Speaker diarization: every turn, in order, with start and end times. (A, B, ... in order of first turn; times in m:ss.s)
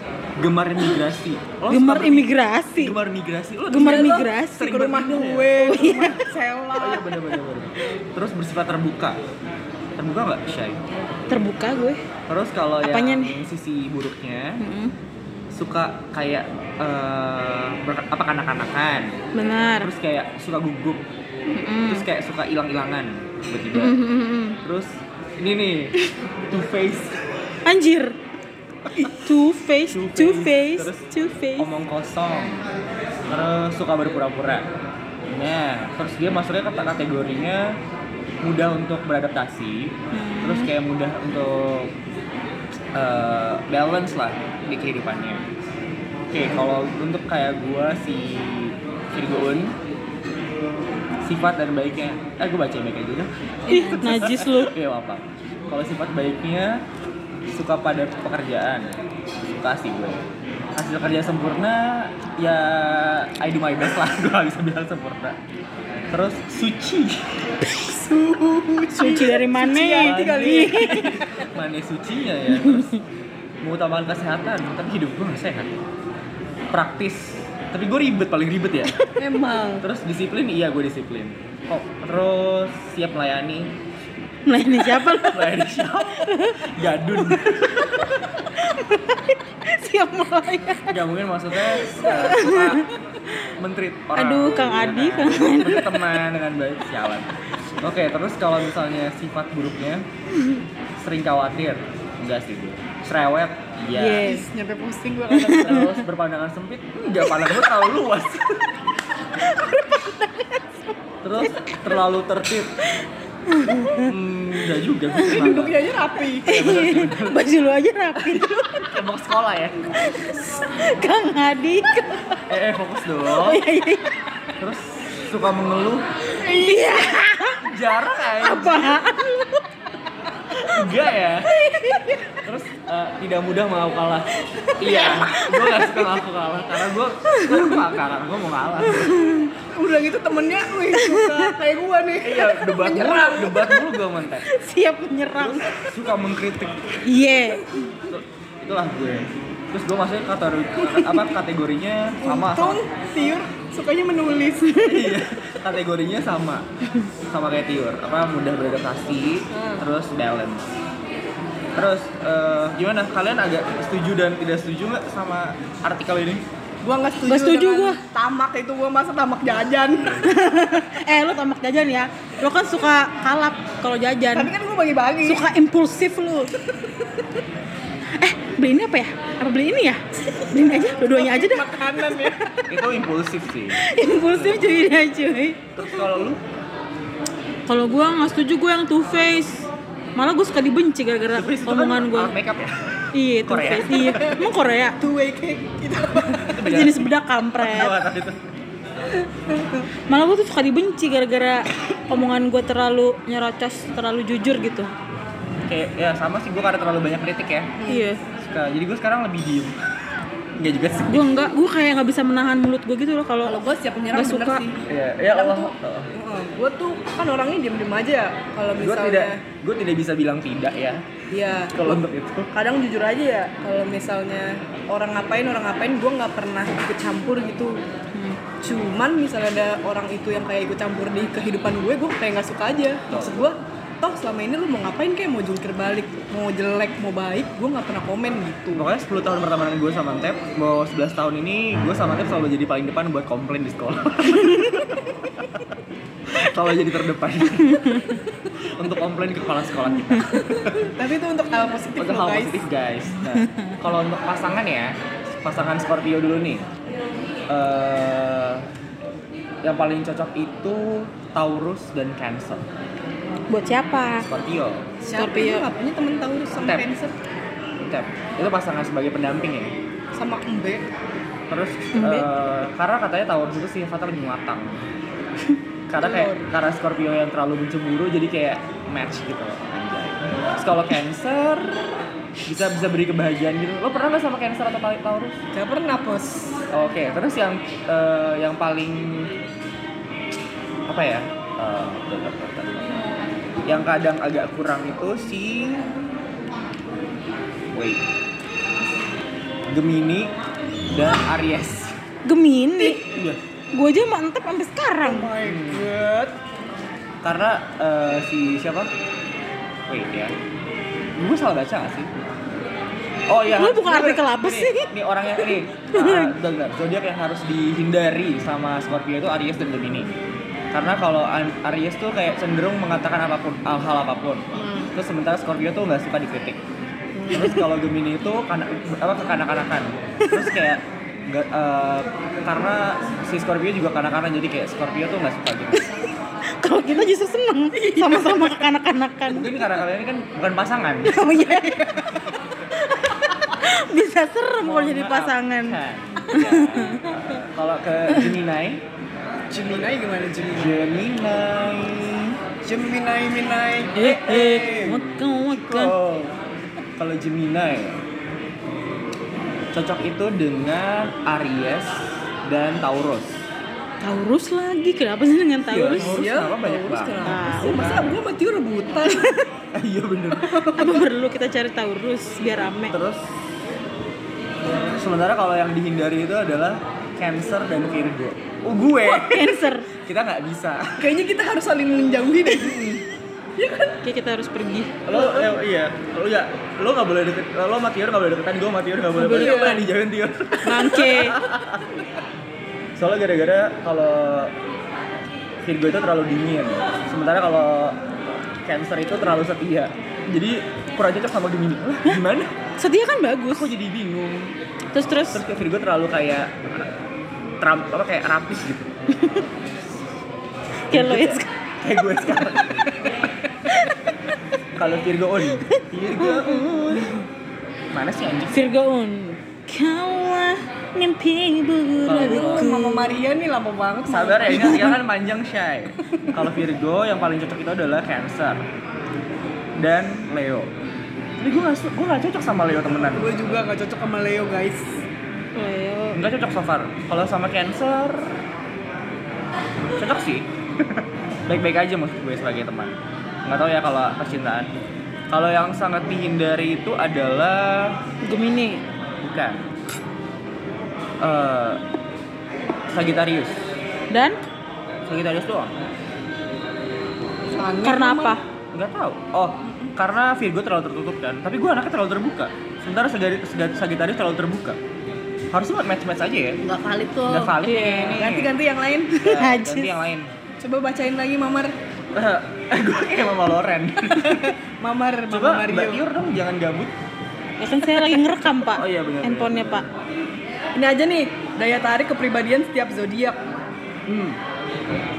0:00.4-0:05.5 A
0:01.7-0:03.0 B
0:03.7-0:04.8 B
0:03.7-0:07.1 C
0:05.5-0:06.2 B
0:06.8-0:09.2 A
0:10.0-0:10.8 A
0:11.3-0:12.0 B
0:12.3-0:14.6 A
0:12.8-0:13.4 B
0:14.6-0:14.9 B
0:15.5-0:19.2 A
0:19.3-0:19.9 B
0:19.8-0:21.0 A
0:21.5-0:22.0 B
0:21.9-0:24.0 A
0:23.7-0:24.6 B
0:24.6-0:25.9 A
0:26.5-0:27.2 A
0:27.6-0:28.2 B
0:28.9-0:29.2 A
0:29.1-0:31.7 B
0:29.9-0:31.0 A
0:31.6-0:32.6 A
0:33.3-0:34.7 A
0:35.3-0:37.8 A
0:38.4-0:41.9 A
0:40.1-0:40.7 B
0:42.9-0:45.5 A
0:46.3-0:49.8 A
0:51.2-0:56.8 A
0:53.7-0:54.8 B
0:57.5-1:05.4 A
1:06.1-1:07.5 A
1:07.7-1:11.1 C
1:09.0-1:11.2 B
1:10.0-1:12.9 A
1:12.5-1:13.0 B
1:13.6-1:15.8 A
1:16.7-1:19.0 A
1:19.2-1:19.8 C
1:19.8-1:23.7 A
1:24.5-1:26.7 B
1:24.9-1:28.2 A
1:28.4-1:31.0 B
1:30.9-1:32.9 A
1:31.7-1:33.4 B
1:33.6-1:40.0 A
1:34.2-1:36.2 B
1:41.0-1:44.3 A
1:43.9-1:44.5 B
1:44.2-1:45.9 C
1:45.4-1:45.9 B
1:45.5-1:48.8 A
1:49.4-1:50.6 B
1:51.2-1:52.7 A
1:51.4-1:51.8 B
1:52.8-1:54.1 B
1:53.7-1:55.7 A
1:55.2-1:56.5 C
1:56.4-1:57.4 A
1:56.5-1:58.7 B
1:58.3-1:59.9 A
2:00.0-2:02.4 B
2:02.5-2:03.6 A
2:03.2-2:04.2 B
2:04.6-2:06.1 A
2:06.4-2:07.7 B
2:06.4-2:06.8 C
2:07.5-2:09.0 A
2:08.3-2:09.6 B
2:10.5-2:11.6 A
2:11.6-2:12.0 B
2:11.7-2:12.4 C
2:12.4-2:19.2 A
2:14.5-2:16.2 B
2:17.3-2:17.8 B
2:18.8-2:19.5 B
2:19.7-2:23.6 C
2:20.9-2:21.5 B
2:22.2-2:24.5 A
2:24.5-2:25.7 B
2:25.4-2:27.0 A
2:27.0-2:27.8 B
2:28.1-2:32.8 A
2:30.8-2:31.3 C
2:32.2-2:35.0 C
2:34.7-2:36.6 A
2:37.3-2:40.7 A
2:39.5-2:39.8 C
2:41.8-2:46.4 A
2:46.8-2:50.3 C
2:47.2-2:48.0 B
2:50.2-2:54.5 B
2:54.3-2:55.5 C
2:55.2-2:56.5 B
2:58.2-3:02.6 B
3:01.0-3:02.5 C
3:02.7-3:04.6 A
3:03.8-3:05.6 B
3:05.7-3:06.4 A
3:07.7-3:12.4 B
3:11.3-3:14.2 A
3:13.1-3:15.0 B
3:15.0-3:16.7 C
3:16.3-3:18.4 A
3:16.6-3:18.0 B
3:19.5-3:19.8 C
3:20.1-3:24.9 B
3:25.7-3:27.7 A
3:27.8-3:28.1 C
3:27.9-3:28.2 B
3:28.4-3:29.8 A
3:30.6-3:31.3 A
3:31.1-3:33.6 B
3:33.4-3:39.4 C
3:34.1-3:34.7 B
3:34.9-3:36.1 A
3:38.8-3:41.0 A
3:41.3-3:47.8 C
3:41.7-3:42.5 A
3:48.1-3:48.4 B
3:48.6-3:58.9 C
3:53.1-3:53.4 A
3:58.7-4:05.6 A
4:06.3-4:08.2 A
4:07.7-4:08.2 B
4:08.8-4:10.9 A
4:10.8-4:12.6 C
4:12.0-4:16.7 A
4:13.3-4:13.7 B
4:17.5-4:18.7 A
4:19.6-4:22.7 A
4:23.5-4:24.3 B
4:24.2-4:24.9 A
4:25.0-4:27.1 C
4:25.1-4:25.7 B
4:26.6-4:26.8 A
4:27.8-4:29.7 A
4:30.1-4:30.8 C
4:31.5-4:34.8 A
4:31.9-4:32.3 B
4:35.9-4:41.7 A
4:36.0-4:36.5 C
4:42.5-4:45.4 A
4:45.5-4:46.6 C
4:46.7-4:49.3 A
4:50.9-4:52.9 A
4:53.6-4:55.9 A
4:57.7-4:58.0 A
4:59.7-5:00.3 A
5:00.9-5:02.0 A
5:02.2-5:03.0 B
5:03.0-5:03.4 A
5:03.7-5:05.3 B
5:05.0-5:06.4 C
5:05.4-5:05.9 A
5:07.2-5:08.9 A
5:09.9-5:10.4 A
5:11.2-5:12.2 A
5:13.3-5:20.1 A
5:13.5-5:16.3 B
5:20.7-5:26.6 A
5:24.5-5:24.9 C
5:27.1-5:27.6 C
5:27.3-5:35.9 A
5:36.6-5:39.5 B
5:37.8-5:38.5 C
5:39.3-5:41.5 A
5:41.0-5:47.4 B
5:44.6-5:48.8 A
5:49.5-5:50.8 C
5:50.5-5:52.4 A
5:52.6-5:55.0 C
5:54.0-5:55.9 B
5:54.0-5:56.3 A
5:57.0-5:58.0 A
5:59.7-6:03.4 A
6:04.0-6:06.2 B
6:05.6-6:07.3 A
6:05.9-6:09.5 C
6:07.2-6:08.1 B
6:09.7-6:10.5 A
6:10.4-6:11.0 C
6:10.7-6:12.9 B
6:12.9-6:13.2 A
6:14.6-6:21.1 A
6:19.0-6:19.9 B
6:21.0-6:22.9 C
6:22.5-6:23.0 A
6:23.6-6:24.0 C
6:24.0-6:25.0 B
6:25.0-6:32.0 A
6:25.1-6:25.5 C
6:29.1-6:29.8 B
6:29.2-6:29.8 C
6:30.6-6:31.4 B
6:33.0-6:34.5 A
6:35.6-6:42.5 A
6:42.8-6:43.7 B
6:43.5-6:44.5 A
6:44.9-6:45.4 B
6:45.3-6:46.9 A
6:47.6-6:48.9 A
6:49.2-6:49.4 B
6:50.9-6:51.5 B
6:50.9-6:52.9 A
6:54.8-6:57.1 A
6:55.5-6:57.2 B
6:57.9-6:58.7 A
6:58.5-7:03.2 B
7:02.0-7:02.6 A
7:02.1-7:04.9 C
7:04.1-7:08.6 A
7:04.5-7:04.9 B
7:09.8-7:10.7 A
7:11.4-7:13.4 A
7:13.1-7:15.0 C
7:15.5-7:16.2 B
7:16.1-7:18.4 A
7:19.8-7:24.7 A
7:25.3-7:28.0 A
7:28.2-7:28.8 B
7:29.2-7:29.7 A
7:31.2-7:31.8 A
7:32.9-7:33.6 A
7:34.1-7:34.4 B
7:35.0-7:35.7 A
7:37.6-7:38.4 C
7:37.8-7:38.4 B
7:38.7-7:44.8 A
7:39.6-7:39.9 C
7:45.5-7:46.6 A
7:46.6-7:49.4 C
7:47.2-7:48.5 A
7:47.6-7:48.2 B
7:49.1-7:50.3 A
7:49.4-7:49.9 B
7:50.6-7:51.7 C
7:52.1-7:54.6 A
7:54.1-7:56.0 C
7:55.3-7:56.9 A
7:57.6-7:59.8 B
7:58.6-7:59.8 A
8:00.7-8:03.4 C
8:04.1-8:04.4 A